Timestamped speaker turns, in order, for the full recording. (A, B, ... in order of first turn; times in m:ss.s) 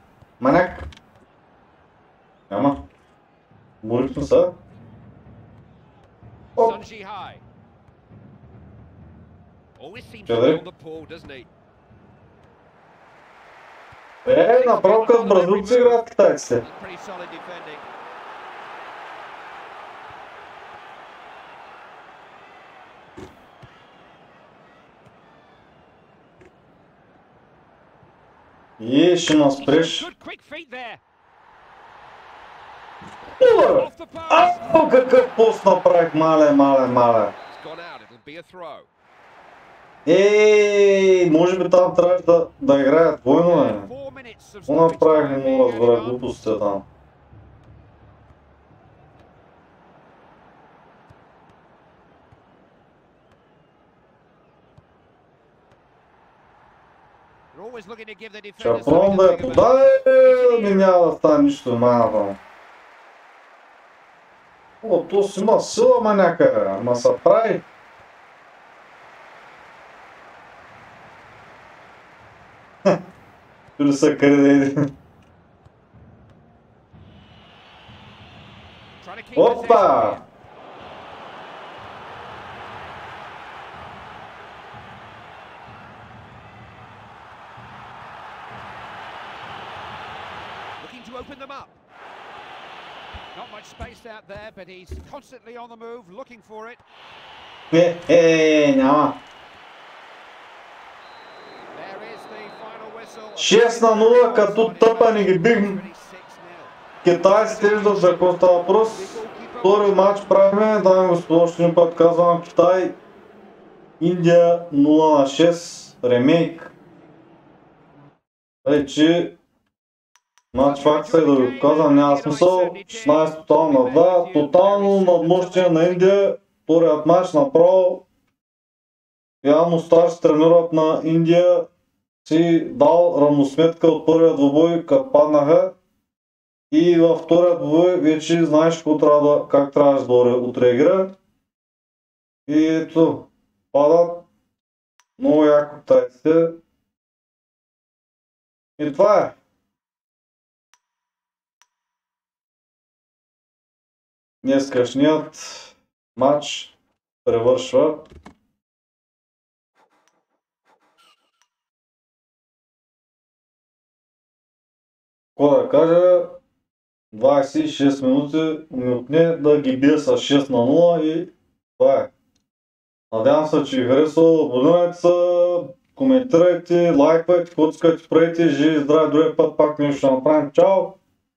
0:00.4-0:00.9 A
0:02.5-0:02.8 A
0:03.8-0:04.6 A
0:06.6-0:07.4 B
0:09.8-0:11.5 B
0:10.3-0:10.6 A
0:14.2-0:16.6 A
0:14.4-0:16.0 B
0:16.6-0:17.8 B
0:28.8-0:30.1 A
0:29.6-0:31.0 B
0:33.4-0:37.3 A
0:33.5-0:34.7 B
0:37.5-0:38.9 B
0:40.0-0:43.9 A
0:43.4-0:46.3 B
0:44.7-0:46.8 A
0:57.5-1:00.9 B
0:58.6-1:02.4 A
1:04.8-1:07.6 A
1:13.8-1:14.9 A
1:19.0-1:20.2 B
1:19.4-1:20.2 A
1:30.8-1:31.8 B
1:33.4-1:36.8 B
1:37.7-1:39.2 A
1:41.7-1:46.7 B
1:43.4-1:45.8 A
1:47.0-1:53.0 A
1:47.3-1:50.4 B
1:54.0-1:56.7 A
1:58.6-1:59.4 A
2:00.5-2:08.0 A
2:00.6-2:06.2 B
2:09.4-2:11.7 A
2:12.2-2:15.8 A
2:16.7-2:21.2 A
2:22.5-2:24.3 A
2:25.2-2:26.6 A
2:28.8-2:29.4 A
2:34.4-2:38.1 A
2:45.4-2:46.4 A
2:47.1-2:52.1 A
2:53.1-3:01.0 A